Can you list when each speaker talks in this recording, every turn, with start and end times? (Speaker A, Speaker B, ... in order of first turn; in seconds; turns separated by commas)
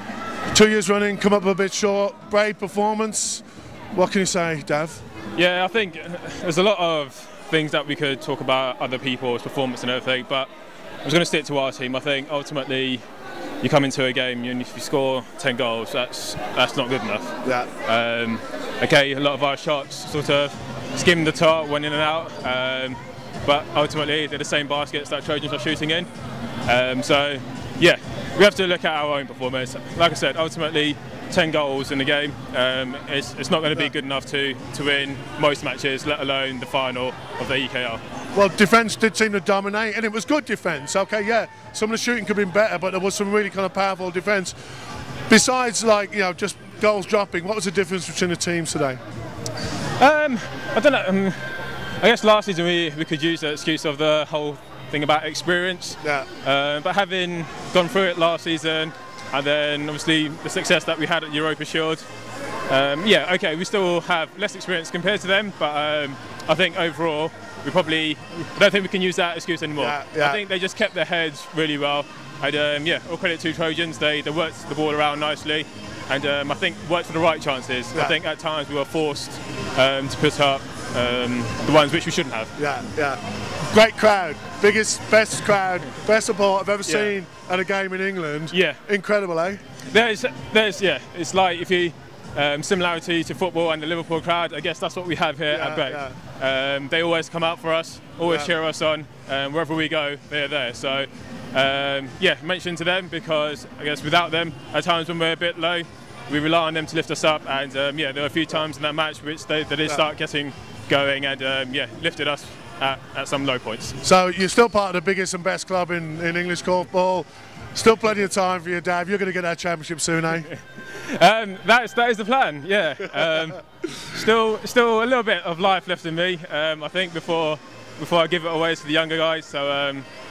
Speaker A: 0.5-5.0, Speaker B: 5.3-10.5, Speaker B: 11.0-13.0, Speaker B: 13.6-26.1, Speaker A: 17.4-17.7, Speaker B: 26.7-38.0, Speaker A: 38.3-44.6, Speaker A: 45.3-49.0, Speaker B: 50.0-62.0, Speaker A: 56.0-56.3, Speaker B: 62.7-82.5, Speaker A: 69.8-70.4, Speaker A: 82.6-89.6, Speaker B: 86.9-87.2, Speaker B: 88.5-88.8, Speaker B: 89.9-114.0, Speaker A: 95.5-96.2, Speaker A: 98.2-98.5, Speaker A: 114.0-120.5, Speaker B: 120.5-130.1